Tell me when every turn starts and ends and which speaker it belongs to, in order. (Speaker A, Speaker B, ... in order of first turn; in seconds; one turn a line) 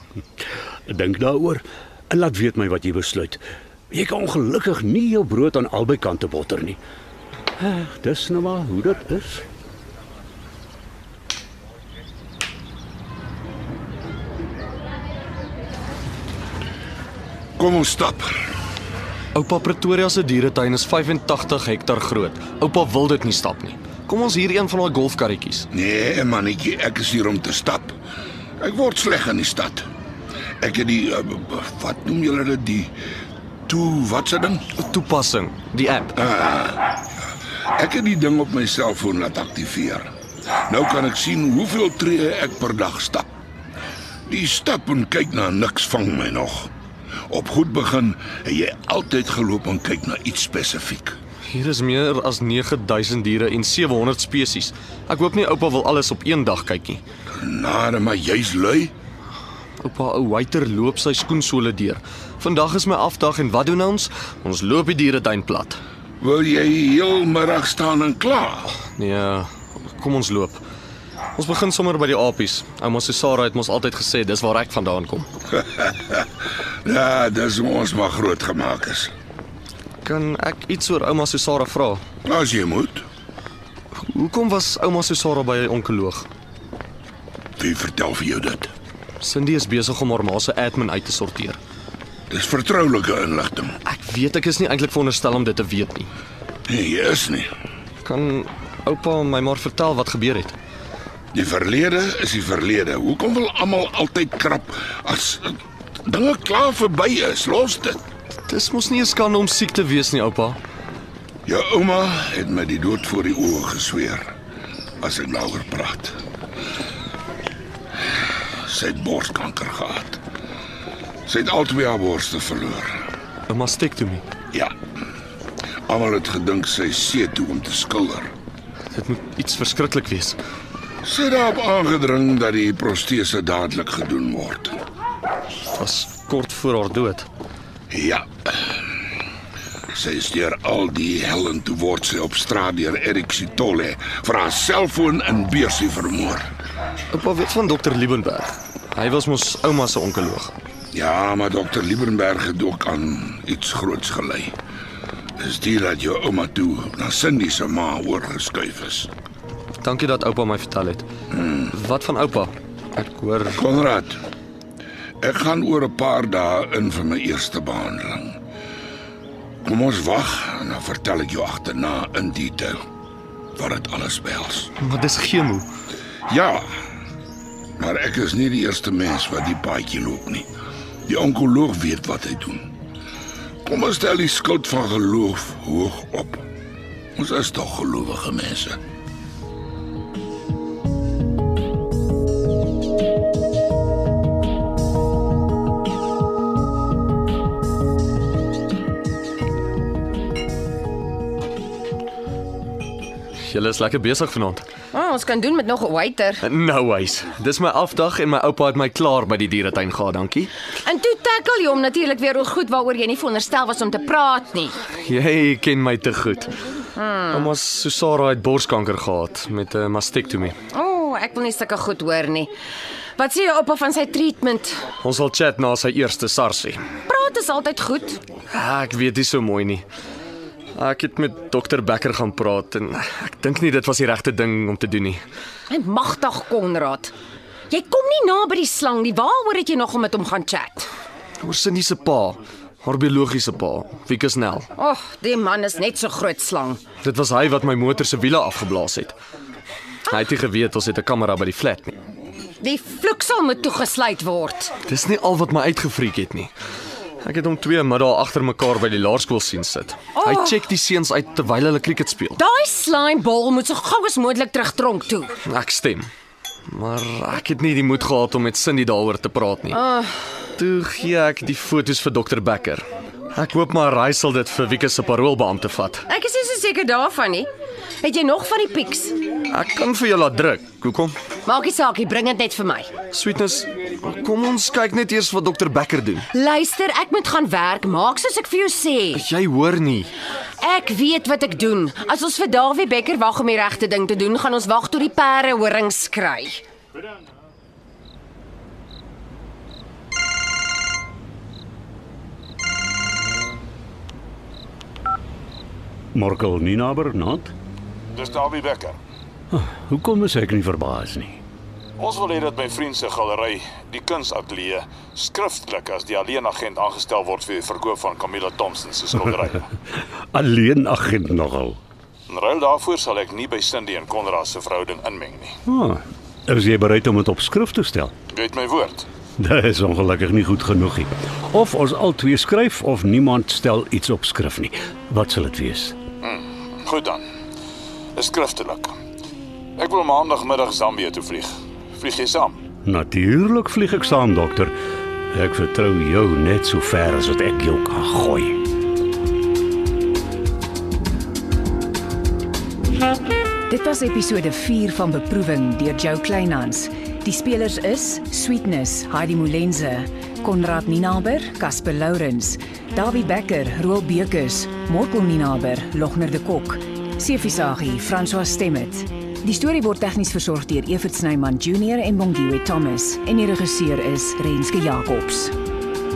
Speaker A: 0.9-6.8
Speaker A: 7.6-9.4
Speaker B: 17.6-18.3
Speaker C: 19.4-25.7
Speaker B: 25.7-27.9
Speaker B: 28.6-29.9
Speaker B: 30.6-32.9
Speaker B: 33.7-34.6
Speaker C: 34.8-36.2
Speaker B: 36.2-36.9
Speaker B: 37.8-40.1
Speaker B: 40.7-43.3
Speaker B: 44.3-46.7
Speaker B: 47.3-51.2
Speaker C: 51.5-57.0
Speaker B: 57.4-58.9
Speaker C: 59.8-65.8
Speaker B: 66.2-68.7
Speaker C: 69.0-70.6
Speaker C: 71.4-75.3
Speaker B: 75.7-76.2
Speaker B: 76.8-79.1
Speaker C: 80.0-82.0
Speaker B: 82.2-83.0
Speaker C: 84.0-86.3
Speaker B: 87.6-88.7
Speaker C: 89.2-91.6
Speaker B: 92.3-93.8
Speaker C: 93.8-96.1
Speaker B: 96.7-97.5
Speaker C: 98.0-100.6
Speaker B: 101.3-108.0
Speaker C: 108.5-110.6
Speaker B: 111.5-114.3
Speaker B: 115.0-116.2
Speaker B: 118.6-120.2
Speaker B: 121.3-123.0
Speaker C: 123.5-124.2
Speaker B: 125.9-128.3
Speaker C: 128.9-130.4
Speaker B: 131.0-134.8
Speaker C: 135.8-137.3
Speaker B: 137.9-138.8
Speaker B: 139.9-146.5
Speaker C: 147.1-150.5
Speaker B: 150.9-154.6
Speaker B: 155.4-159.1
Speaker C: 159.8-161.1
Speaker C: 161.7-163.7
Speaker B: 163.6-164.2
Speaker B: 165.2-168.4
Speaker B: 169.7-172.8
Speaker B: 173.6-174.7
Speaker C: 174.8-175.7
Speaker B: 176.3-176.7
Speaker B: 177.8-180.5
Speaker B: 181.1-182.7
Speaker B: 183.7-186.4
Speaker B: 187.2-188.8
Speaker C: 203.4-204.7
Speaker D: 204.9-206.4
Speaker C: 206.4-210.5
Speaker D: 210.8-214.8
Speaker C: 215.0-216.6
Speaker D: 217.0-217.5
Speaker C: 217.3-220.6
Speaker D: 220.7-222.5
Speaker D: 223.2-224.8
Speaker C: 225.0-226.8
Speaker D: 227.1-228.2
Speaker C: 228.5-229.8
Speaker C: 230.8-235.2
Speaker D: 235.7-237.1
Speaker D: 237.7-240.9
Speaker C: 241.4-244.7
Speaker D: 244.8-246.8
Speaker C: 247.0-249.2
Speaker C: 250.1-252.0
Speaker D: 252.6-254.7
Speaker C: 254.9-256.5
Speaker C: 257.2-262.4
Speaker D: 260.2-260.6
Speaker D: 262.4-265.4
Speaker C: 265.4-266.1
Speaker C: 266.7-269.8
Speaker D: 269.7-270.4
Speaker C: 270.6-276.1
Speaker D: 276.1-277.5
Speaker D: 278.0-279.2
Speaker C: 279.5-281.2
Speaker D: 281.5-282.9
Speaker C: 283.1-286.3
Speaker D: 286.3-289.3
Speaker C: 289.1-290.1
Speaker D: 290.6-296.6
Speaker A: 306.1-307.5
Speaker E: 308.1-309.0
Speaker A: 309.5-311.4
Speaker E: 312.0-319.6
Speaker A: 320.3-321.8
Speaker E: 322.3-325.6
Speaker A: 325.7-328.1
Speaker E: 328.3-329.1
Speaker A: 329.4-336.0
Speaker E: 336.3-337.2
Speaker E: 338.2-338.9
Speaker E: 339.8-342.6
Speaker A: 342.9-344.7
Speaker A: 345.3-348.6
Speaker F: 353.7-375.5